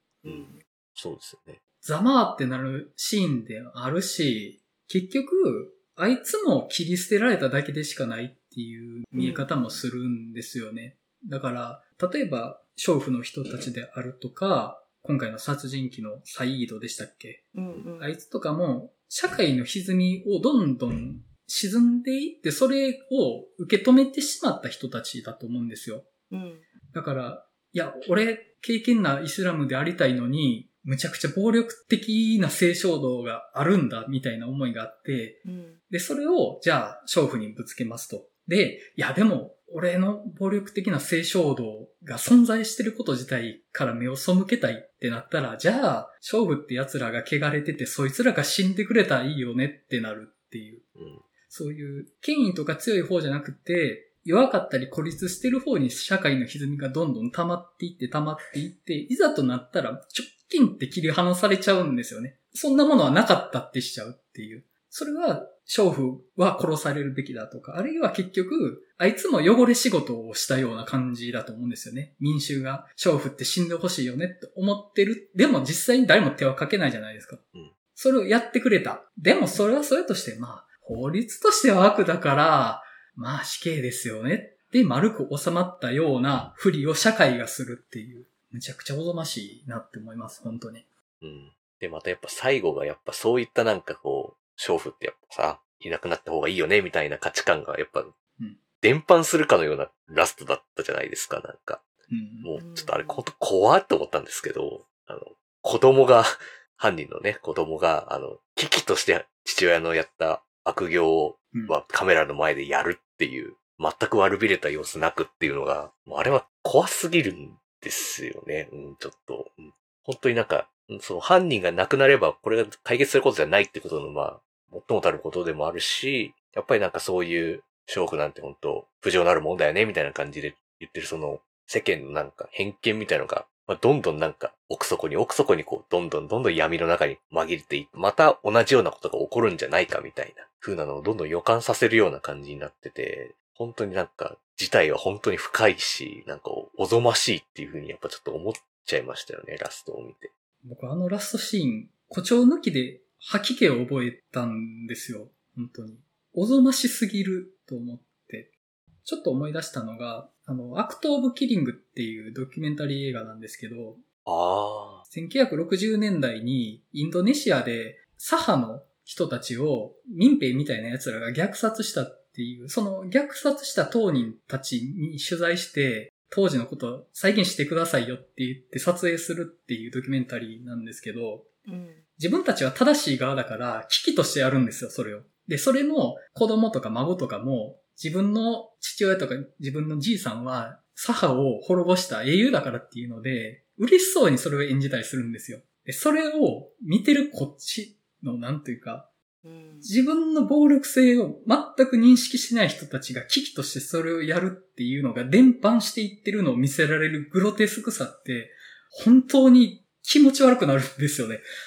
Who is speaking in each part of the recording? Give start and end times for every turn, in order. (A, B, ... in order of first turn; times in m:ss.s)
0:00.2-0:00.6 A
0:00.2-0:01.6 B
0:01.8-0:26.1 C
0:09.2-0:09.8 A
0:17.5-0:18.1 A
0:26.3-0:26.7 A
0:26.9-0:50.9 C
0:35.4-0:35.8 A
0:51.0-0:51.2 B
0:51.5-1:17.4 C
1:18.0-1:30.8 C
1:31.2-1:38.1 B
1:38.8-1:41.8 B
1:42.1-1:42.5 C
1:42.4-2:30.3 B
1:42.6-1:43.2 A
2:30.6-2:38.5 C
2:39.0-2:44.0 C
2:44.3-2:45.0 B
2:45.1-3:01.5 C
3:01.7-3:02.0 A
3:02.2-3:19.1 C
3:19.4-3:19.9 A
3:19.8-3:31.4 C